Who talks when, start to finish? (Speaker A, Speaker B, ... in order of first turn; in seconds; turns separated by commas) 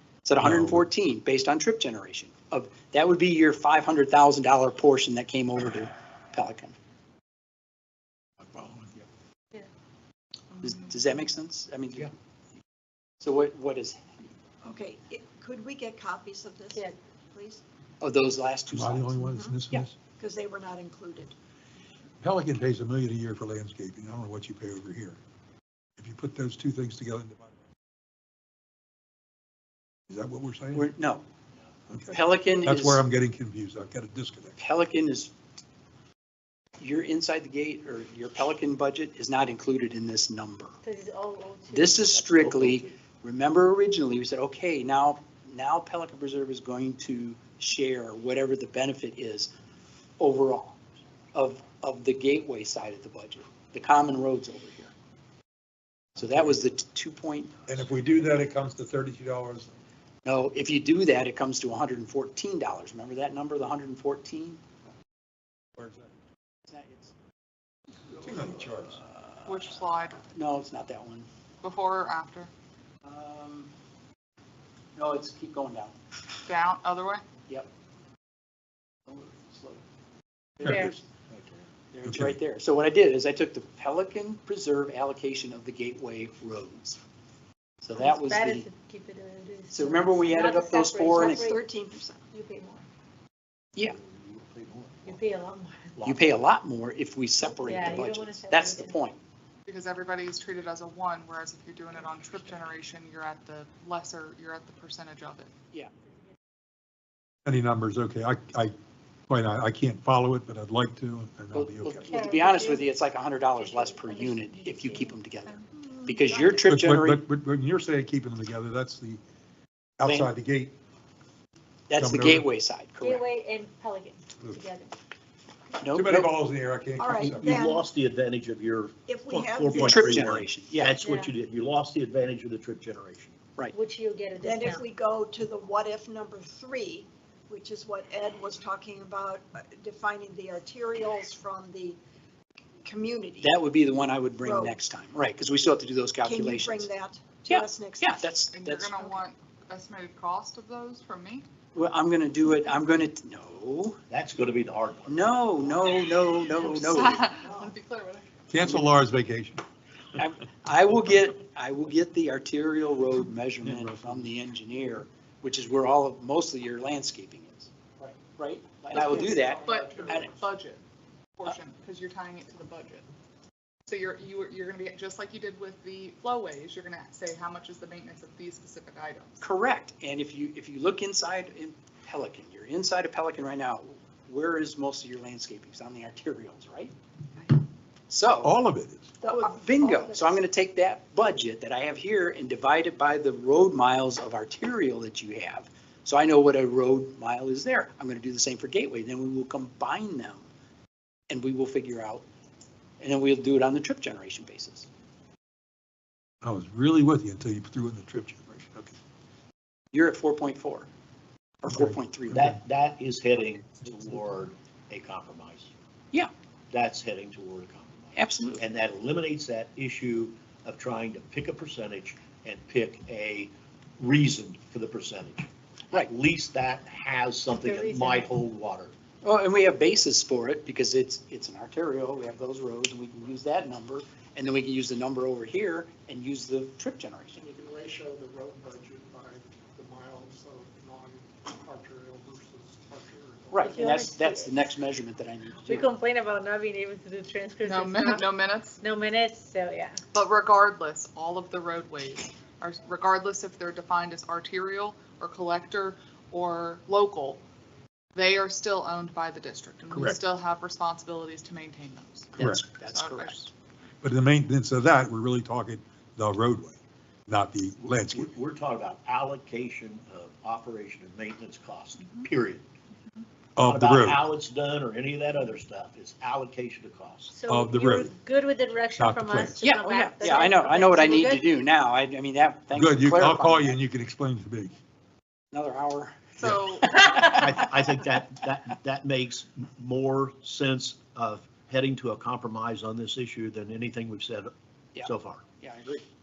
Speaker A: 0.2-6.8, Speaker B: 0.4-0.9, Speaker B: 8.4-9.1, Speaker A: 10.6-12.1, Speaker A: 13.2-14.3, Speaker C: 14.6-17.6, Speaker A: 18.0-19.9, Speaker B: 18.7-20.0, Speaker C: 19.2-19.6, Speaker C: 20.2-21.4, Speaker B: 22.2-25.2, Speaker B: 26.0-27.5, Speaker B: 30.1-30.9, Speaker A: 30.7-31.2, Speaker B: 31.9-34.6, Speaker A: 32.1-33.0, Speaker A: 34.6-35.3, Speaker A: 36.8-40.8, Speaker D: 40.8-42.1, Speaker A: 41.7-49.5, Speaker E: 42.0-42.9, Speaker A: 50.2-50.8, Speaker A: 51.3-54.9, Speaker A: 56.2-57.6, Speaker B: 57.7-59.7, Speaker A: 60.2-64.6, Speaker B: 65.8-66.1, Speaker A: 66.7-67.2, Speaker B: 68.2-69.0, Speaker A: 68.9-71.3, Speaker F: 69.5-70.2, Speaker F: 71.6-72.5, Speaker A: 73.0-73.7, Speaker A: 75.0-76.0, Speaker F: 76.5-77.2, Speaker A: 79.1-79.8, Speaker A: 80.6-81.0, Speaker B: 80.6-82.4, Speaker D: 80.7-80.9, Speaker A: 81.9-87.0, Speaker A: 87.8-88.7, Speaker D: 88.0-91.6, Speaker A: 89.7-91.5, Speaker C: 91.0-92.3, Speaker D: 92.3-92.9, Speaker E: 93.8-95.2, Speaker D: 95.0-96.0, Speaker E: 96.0-96.5, Speaker A: 96.0-99.2, Speaker D: 97.4-99.0, Speaker F: 99.7-105.5, Speaker B: 107.5-108.8, Speaker B: 109.3-112.2, Speaker A: 111.5-117.2, Speaker D: 112.1-112.9, Speaker D: 113.5-116.8, Speaker B: 116.7-119.2, Speaker B: 120.0-120.8, Speaker A: 120.0-120.3, Speaker A: 121.9-123.2, Speaker B: 122.0-122.5, Speaker D: 123.0-124.9, Speaker A: 125.8-126.3, Speaker B: 125.9-127.7, Speaker C: 127.0-127.8, Speaker E: 127.4-133.4, Speaker C: 129.1-130.3, Speaker A: 129.7-131.0, Speaker D: 131.0-131.3, Speaker D: 133.7-134.8, Speaker C: 134.4-142.0, Speaker C: 142.8-143.6, Speaker A: 143.4-146.9, Speaker C: 144.4-144.8, Speaker C: 146.2-148.2, Speaker A: 147.5-149.2, Speaker F: 148.5-151.5, Speaker A: 151.8-154.0, Speaker E: 154.1-155.3, Speaker A: 155.1-157.2, Speaker F: 156.6-158.3, Speaker B: 158.5-159.6, Speaker A: 160.2-170.3, Speaker B: 163.6-164.3, Speaker G: 168.9-170.5, Speaker F: 169.6-170.8, Speaker F: 171.4-173.1, Speaker F: 173.9-179.4, Speaker A: 179.4-186.9, Speaker A: 188.1-188.5, Speaker B: 188.4-189.1, Speaker A: 189.2-200.5, Speaker C: 189.2-190.3, Speaker A: 201.3-202.3, Speaker A: 203.0-204.9, Speaker B: 206.4-209.0, Speaker A: 209.9-210.9, Speaker A: 211.6-212.6, Speaker E: 212.3-215.7, Speaker E: 216.7-228.9, Speaker A: 218.2-218.6, Speaker D: 227.6-228.3, Speaker A: 229.2-237.4, Speaker G: 237.3-243.9, Speaker A: 243.5-245.9, Speaker D: 243.6-244.7, Speaker D: 245.6-250.0, Speaker F: 247.6-248.8, Speaker F: 250.1-257.4, Speaker F: 258.1-263.5, Speaker B: 259.9-260.2, Speaker A: 262.4-263.5, Speaker B: 262.4-262.6, Speaker B: 264.0-268.3, Speaker E: 267.8-272.6, Speaker F: 272.0-272.3, Speaker B: 273.6-274.2, Speaker E: 273.6-277.4, Speaker D: 277.3-281.5, Speaker B: 277.4-278.1, Speaker B: 279.0-279.7, Speaker A: 279.6-283.7, Speaker B: 282.7-284.7, Speaker A: 285.5-287.9, Speaker F: 286.4-286.9, Speaker D: 287.0-287.4, Speaker E: 287.3-294.5, Speaker A: 294.9-296.1, Speaker E: 295.0-295.4